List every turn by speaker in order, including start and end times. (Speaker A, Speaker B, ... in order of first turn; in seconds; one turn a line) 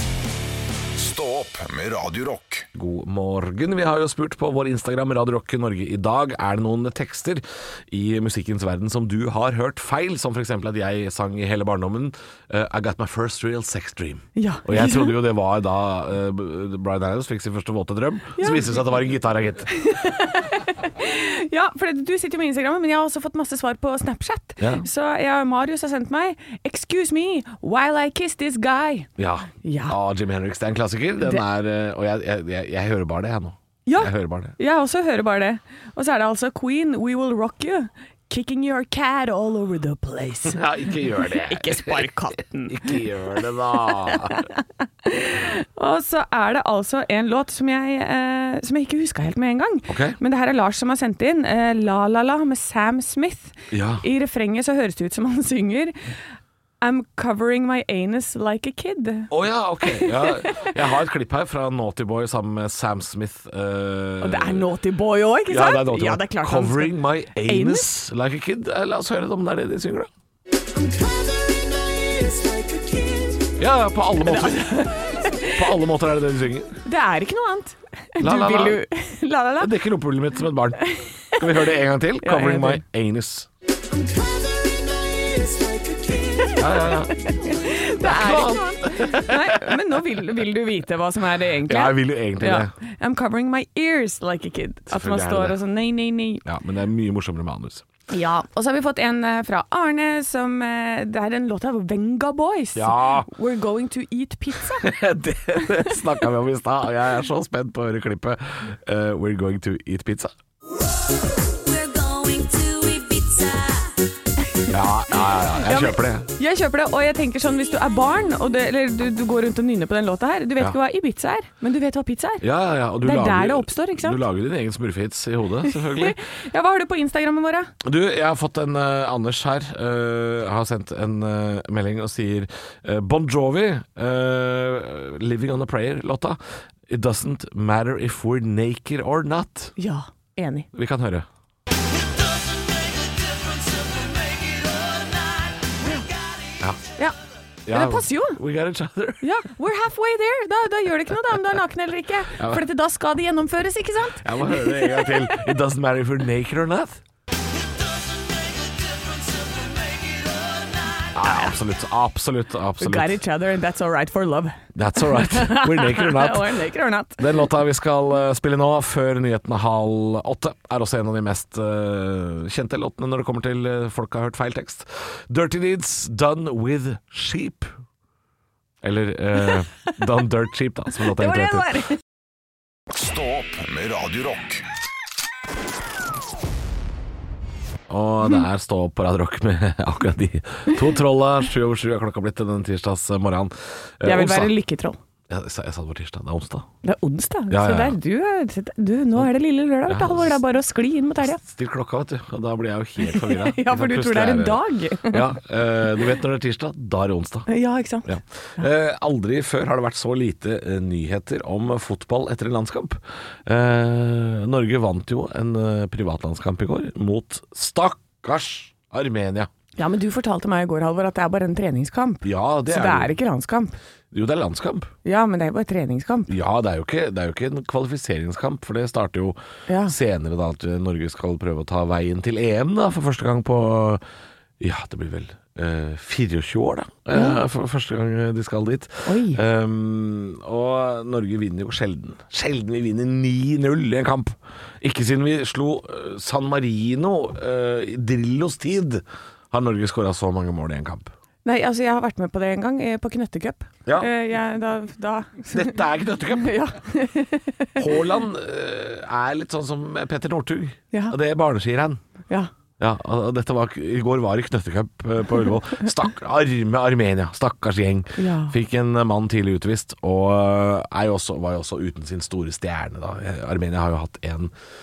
Speaker A: 0.9-2.7
Speaker B: 2.7-19.7
Speaker C: 14.3-15.2
Speaker C: 18.4-18.8
Speaker C: 19.7-29.1
Speaker B: 24.6-24.8
Speaker B: 29.2-34.5
Speaker C: 29.6-30.0
Speaker C: 33.9-40.6
Speaker B: 40.5-42.1
Speaker C: 41.3-43.0
Speaker B: 42.7-44.4
Speaker C: 43.8-56.0
Speaker B: 49.9-50.1
Speaker B: 53.7-54.0
Speaker C: 56.8-59.3
Speaker B: 59.3-64.7
Speaker C: 59.8-60.7
Speaker C: 64.2-67.9
Speaker B: 65.5-70.1
Speaker B: 73.6-74.9
Speaker C: 74.2-75.6
Speaker B: 75.5-76.8
Speaker C: 76.8-79.7
Speaker B: 78.2-78.8
Speaker B: 79.6-83.5
Speaker C: 80.8-81.7
Speaker C: 82.2-82.8
Speaker C: 86.4-96.4
Speaker B: 86.6-87.3
Speaker B: 88.0-89.8
Speaker B: 91.6-92.7
Speaker B: 94.9-95.6
Speaker B: 96.4-97.8
Speaker C: 98.1-104.9
Speaker B: 102.7-103.3
Speaker B: 104.7-110.3
Speaker D: 111.5-113.9
Speaker B: 114.7-116.3
Speaker C: 115.6-122.4
Speaker B: 122.4-126.2
Speaker C: 123.0-124.2
Speaker C: 125.7-127.7
Speaker B: 127.8-139.7
Speaker C: 139.8-140.7
Speaker B: 140.7-141.2
Speaker D: 142.7-145.2
Speaker B: 147.7-149.3
Speaker C: 147.7-148.4
Speaker C: 149.2-155.5
Speaker B: 152.4-152.6
Speaker B: 154.2-157.0
Speaker D: 159.0-161.0
Speaker B: 161.1-163.1
Speaker C: 162.8-167.5
Speaker B: 164.7-166.6
Speaker B: 167.2-177.7
Speaker B: 178.8-181.8
Speaker C: 179.5-179.9
Speaker C: 181.0-182.0
Speaker A: 182.9-184.6
Speaker B: 187.9-194.5
Speaker C: 194.0-195.0
Speaker B: 195.3-196.7
Speaker C: 196.8-201.4
Speaker B: 197.5-198.0
Speaker B: 199.8-200.4
Speaker B: 201.2-207.5
Speaker C: 203.0-205.3
Speaker C: 207.5-208.1
Speaker B: 208.1-219.5
Speaker C: 219.8-223.8
Speaker B: 222.2-223.1
Speaker B: 224.1-224.9
Speaker C: 225.0-226.3
Speaker B: 226.3-234.0
Speaker C: 229.7-229.9
Speaker B: 234.6-251.1
Speaker C: 237.1-237.4
Speaker C: 239.1-239.4
Speaker C: 251.4-257.8
Speaker B: 255.5-256.6
Speaker B: 257.8-262.0
Speaker B: 262.8-274.5
Speaker C: 268.2-268.5